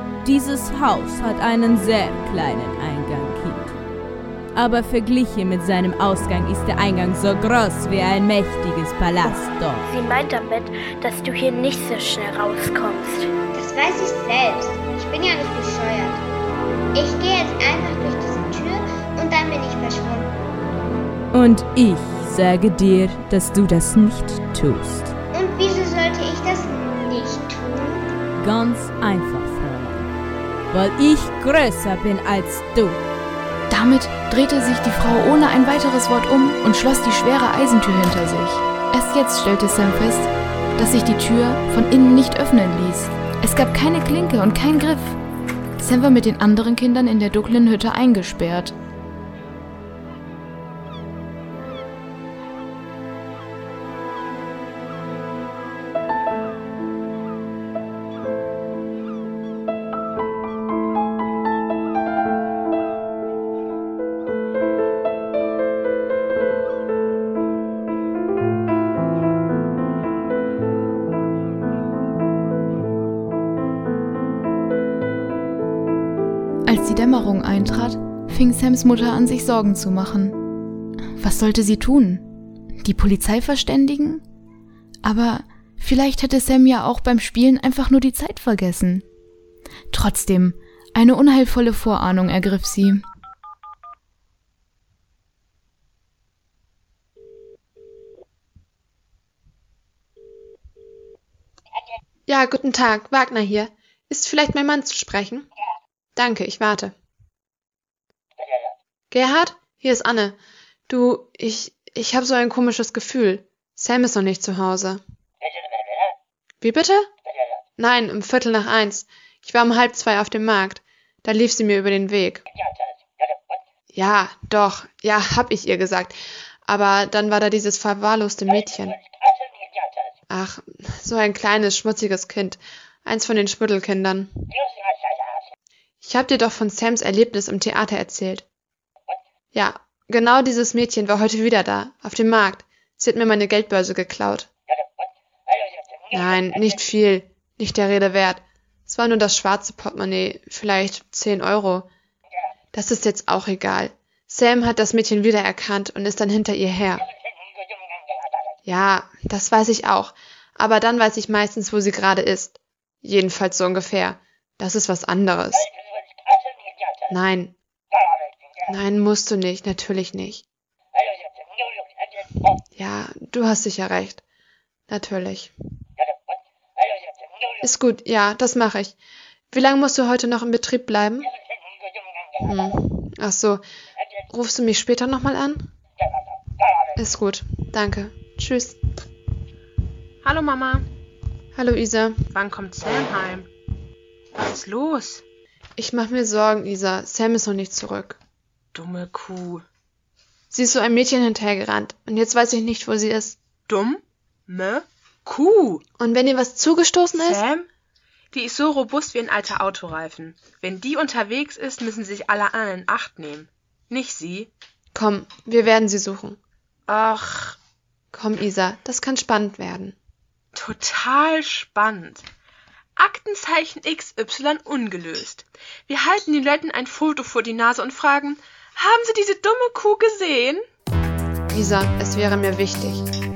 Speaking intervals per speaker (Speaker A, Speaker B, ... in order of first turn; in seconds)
Speaker A: 0.2-3.8, 4.5-9.8, 21.3-25.1, 28.4-30.1, 30.7-33.0
Speaker B: 9.8-13.3
Speaker C: 13.5-16.2, 16.9-20.4, 25.3-28.1
Speaker D: 33.7-45.2, 45.8-48.7, 76.7-80.4, 81.2-82.2, 82.8-84.2, 85.0-89.0, 89.9-93.0
Speaker E: 102.3-105.5, 106.2-106.9, 109.1-110.4, 110.9-115.0, 116.6-117.1, 117.8-122.4, 123.9-129.0, 130.3-134.3, 136.0-138.4, 139.5-144.5, 146.1-151.9, 152.7-157.1, 158.7-165.7, 167.1-167.5, 168.7-170.4, 172.8-174.2, 174.9-175.5, 177.6-178.9, 179.5-181.3, 182.4-183.6, 184.3-185.7, 187.0-188.8, 191.6-192.2, 195.8-198.2, 200.5-203.4, 206.0-207.4, 214.9-216.4, 218.1-219.9, 231.5-233.1
Speaker F: 190.2-190.9, 192.3-193.5, 194.3-195.2, 198.7-199.6, 203.7-205.8, 207.1-207.7, 208.3-214.5, 216.9-217.6, 220.5-222.2, 223.0-230.6